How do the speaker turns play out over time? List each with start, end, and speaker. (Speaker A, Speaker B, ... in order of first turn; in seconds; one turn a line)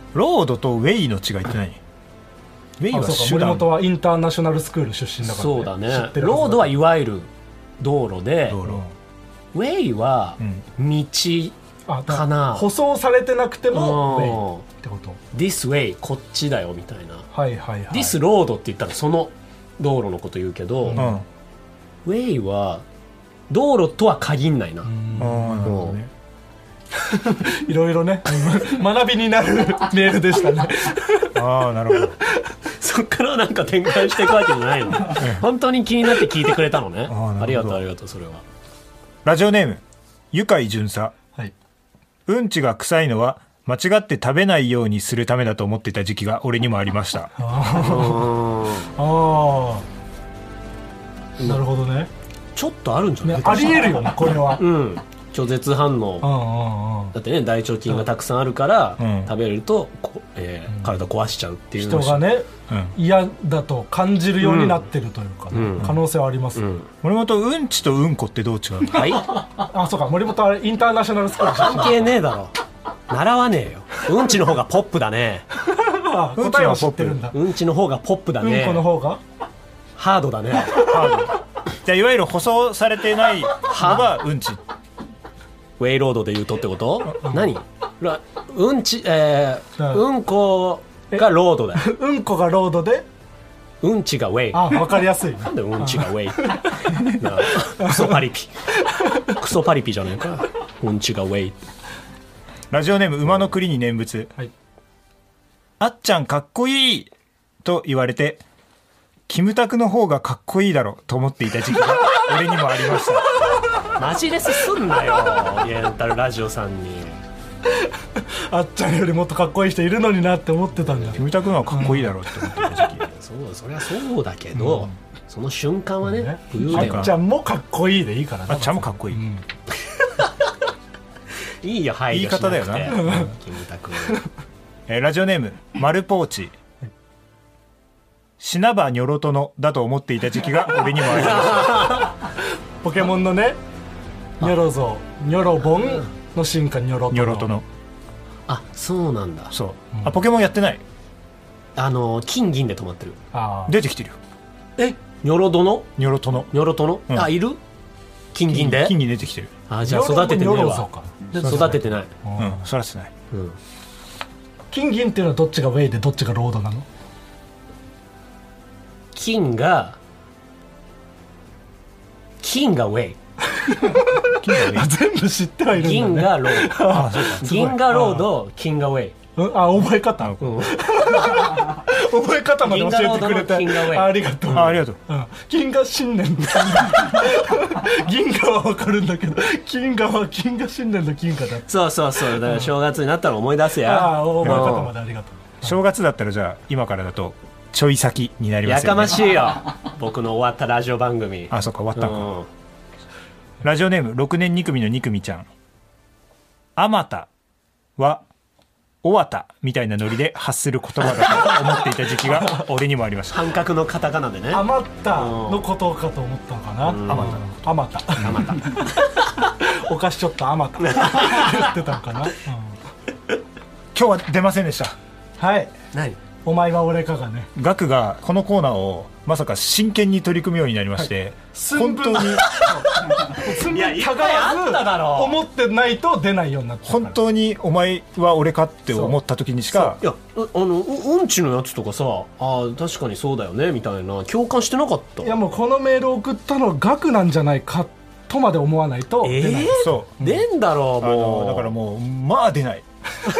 Speaker A: 0.1-1.8
Speaker A: 2.8-3.7
Speaker B: 2.9-6.7
Speaker C: 5.2-7.3
Speaker C: 7.8-8.7
Speaker A: 8.5-8.9
Speaker C: 9.5-11.5
Speaker A: 10.4-10.6
Speaker B: 11.9-15.2
Speaker C: 12.1-12.7
Speaker C: 13.7-14.6
Speaker C: 15.3-17.3
Speaker B: 17.3-18.1
Speaker C: 17.9-21.0
Speaker B: 20.9-21.2
Speaker A: 20.9-21.2
Speaker C: 22.0-22.8
Speaker C: 23.5-24.9
Speaker B: 24.9-25.7
Speaker A: 25.2-26.1
Speaker C: 25.6-26.0
Speaker B: 27.1-31.4
Speaker A: 31.3-32.2
Speaker C: 32.8-38.4
Speaker A: 35.1-35.5
Speaker A: 37.1-37.8
Speaker A: 39.2-41.1
Speaker A: 42.3-47.3
Speaker B: 47.4-48.3
Speaker C: 47.8-48.9
Speaker B: 48.9-49.9
Speaker B: 51.4-52.1
Speaker C: 52.5-56.3
Speaker B: 53.2-54.6
Speaker B: 56.2-57.1
Speaker C: 57.1-62.2
Speaker A: 59.0-59.3
Speaker B: 61.8-66.6
Speaker A: 62.7-62.9
Speaker C: 64.4-64.8
Speaker C: 65.5-66.0
Speaker C: 66.5-66.9
Speaker A: 67.0-69.2
Speaker C: 68.9-69.4
Speaker B: 69.6-71.9
Speaker C: 71.5-72.5
Speaker C: 73.1-75.5
Speaker B: 75.6-77.4
Speaker A: 76.4-77.2
Speaker C: 77.3-78.8
Speaker B: 78.4-79.2
Speaker C: 80.0-80.9
Speaker A: 80.8-81.3
Speaker A: 81.8-84.6
Speaker C: 83.6-84.1
Speaker C: 85.8-91.8
Speaker B: 87.2-87.5
Speaker B: 91.8-93.0
Speaker C: 93.8-98.5
Speaker B: 94.5-96.7
Speaker B: 97.8-98.1
Speaker B: 98.9-99.3
Speaker C: 99.3-101.6
Speaker A: 102.7-104.3
Speaker A: 105.8-107.1
Speaker A: 107.6-108.4
Speaker A: 109.3-113.2
Speaker C: 114.0-117.2
Speaker B: 117.8-122.8
Speaker A: 121.2-123.1
Speaker C: 123.0-127.1
Speaker A: 124.5-124.9
Speaker B: 126.1-129.4
Speaker A: 126.7-127.1
Speaker A: 128.5-129.2
Speaker C: 131.6-134.2
Speaker A: 132.1-133.3
Speaker B: 132.9-133.3
Speaker A: 134.9-136.5
Speaker A: 138.4-142.0
Speaker C: 141.0-142.2
Speaker B: 142.8-143.6
Speaker B: 144.4-147.5
Speaker A: 147.1-147.7
Speaker C: 148.5-149.5
Speaker A: 149.5-150.8
Speaker B: 149.9-150.2
Speaker C: 151.8-153.2
Speaker B: 153.3-153.7
Speaker A: 153.7-154.2
Speaker C: 154.8-155.9
Speaker A: 156.0-156.5
Speaker C: 156.5-157.6
Speaker C: 158.3-159.0
Speaker A: 158.5-159.5
Speaker C: 159.7-162.1
Speaker B: 159.8-162.6
Speaker A: 161.4-161.8
Speaker A: 162.4-163.1
Speaker C: 163.3-163.6
Speaker B: 164.7-166.8
Speaker C: 169.1-170.0
Speaker C: 172.4-173.2
Speaker B: 173.5-178.2
Speaker A: 174.4-174.9
Speaker C: 175.7-179.2
Speaker A: 176.9-177.6
Speaker B: 179.4-191.7
Speaker C: 180.4-181.5
Speaker C: 182.6-184.7
Speaker A: 184.5-185.0
Speaker C: 191.7-194.9
Speaker B: 192.3-192.7
Speaker B: 193.8-195.7
Speaker A: 194.4-194.8
Speaker A: 195.6-199.3
Speaker C: 198.6-202.5
Speaker A: 201.5-202.3
Speaker A: 203.6-205.5
Speaker A: 206.8-207.3
Speaker A: 208.0-208.2
Speaker A: 209.0-213.5
Speaker C: 213.3-215.7
Speaker B: 214.5-219.0
Speaker C: 216.8-217.4
Speaker A: 217.1-217.6
Speaker C: 218.2-218.9
Speaker B: 219.6-222.8
Speaker C: 220.8-221.7
Speaker A: 223.9-224.9
Speaker B: 225.4-225.7
Speaker C: 225.9-226.2
Speaker B: 226.4-227.5
Speaker A: 227.5-232.5
Speaker B: 231.0-237.2
Speaker C: 232.9-235.4
Speaker A: 236.8-240.0
Speaker C: 239.8-245.3
Speaker B: 245.2-250.4
Speaker C: 249.2-251.7
Speaker A: 249.7-250.1
Speaker A: 251.0-252.8